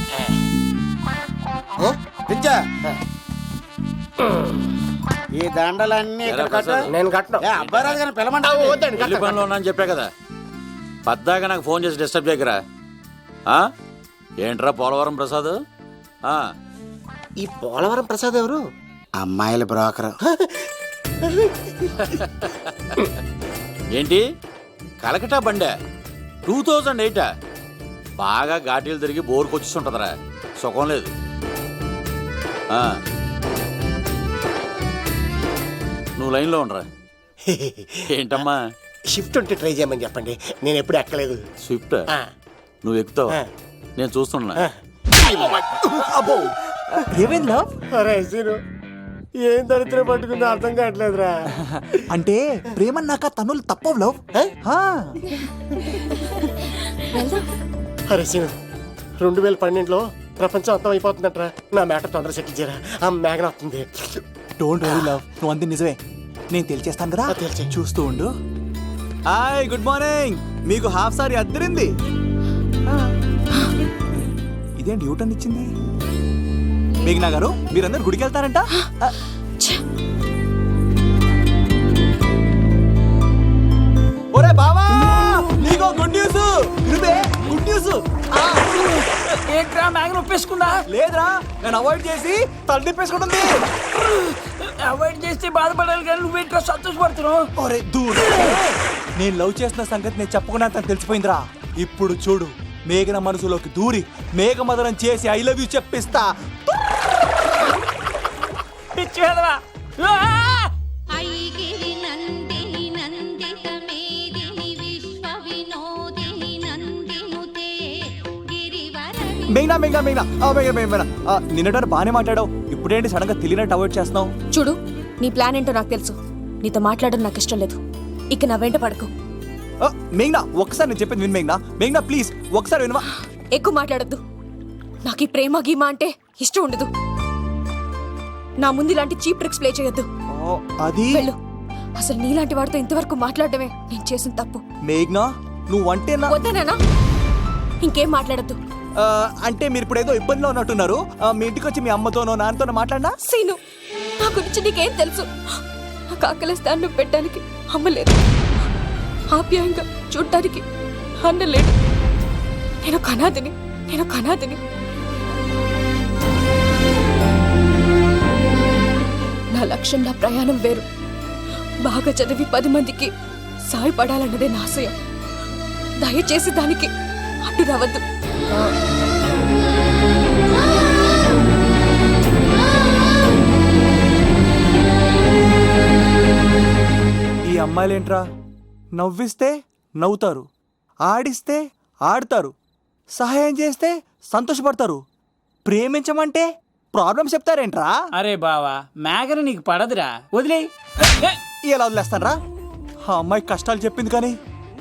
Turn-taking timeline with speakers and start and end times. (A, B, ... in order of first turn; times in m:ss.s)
0:02.3-0:02.6 A
0:05.4-0:06.8 A
0:06.3-0:06.9 B
0:06.9-0:07.4 C
0:07.4-0:08.8 A
0:07.6-0:08.0 B
0:08.4-0:09.4 C
0:09.0-0:10.1 B
0:11.1-0:12.6 B
0:14.4-0:15.6 B
0:16.2-0:16.5 B
0:17.4-0:18.6 C
0:19.2-0:20.1 A
0:20.2-0:20.6 C
0:21.2-0:22.2 C
0:23.9-0:24.2 B
0:25.0-0:25.7 B
0:26.4-0:27.3 B
0:28.2-0:31.1 B
0:32.7-0:33.0 B
0:36.2-0:36.8 B
0:37.4-0:38.0 C
0:38.1-0:38.7 B
0:39.1-0:41.4 C
0:41.6-0:42.0 B
0:42.8-0:43.4 B
0:44.0-0:44.6 B
0:44.6-0:46.4 C
0:46.0-0:46.5 D
0:47.1-0:47.7 D
0:47.9-0:48.6 C
0:49.4-0:51.3 C
0:51.6-0:55.2 D
0:58.1-0:58.6 C
0:59.2-1:04.2 C
1:04.6-1:06.0 D
1:06.5-1:08.3 D
1:07.3-1:07.7 C
1:09.3-1:11.9 D
1:14.1-1:15.7 D
1:17.0-1:19.1 D
1:24.3-1:28.0 D
1:28.5-1:30.8 E
1:30.9-1:33.6 D
1:34.0-1:37.5 E
1:37.6-1:46.3 D
1:48.9-1:50.7 E
1:51.1-1:59.6 F
1:59.5-2:04.3 D
2:04.5-2:07.8 G
2:08.3-2:09.1 G
2:09.8-2:13.0 D
2:13.5-2:14.2 G
2:15.0-2:16.9 G
2:18.6-2:20.1 G
2:20.3-2:21.3 D
2:22.0-2:24.6 G
2:24.8-2:26.3 D
2:26.3-2:26.8 G
2:27.8-2:28.6 G
2:29.0-2:33.1 D
2:33.2-2:33.6 G
2:34.2-2:35.3 G
2:36.2-2:38.1 G
2:39.3-2:40.6 G
2:41.2-2:41.7 G
2:42.8-2:44.6 G
2:49.5-2:50.8 G
2:51.8-2:53.1 G
2:53.7-2:54.9 G
2:56.0-2:56.9 G
2:57.4-2:58.0 G
3:07.4-3:08.2 D
3:09.0-3:10.5 D
3:11.1-3:12.5 D
3:13.1-3:15.0 D
3:15.6-3:18.0 D
3:18.1-3:20.7 E
3:21.6-3:22.4 D
3:23.0-3:24.4 D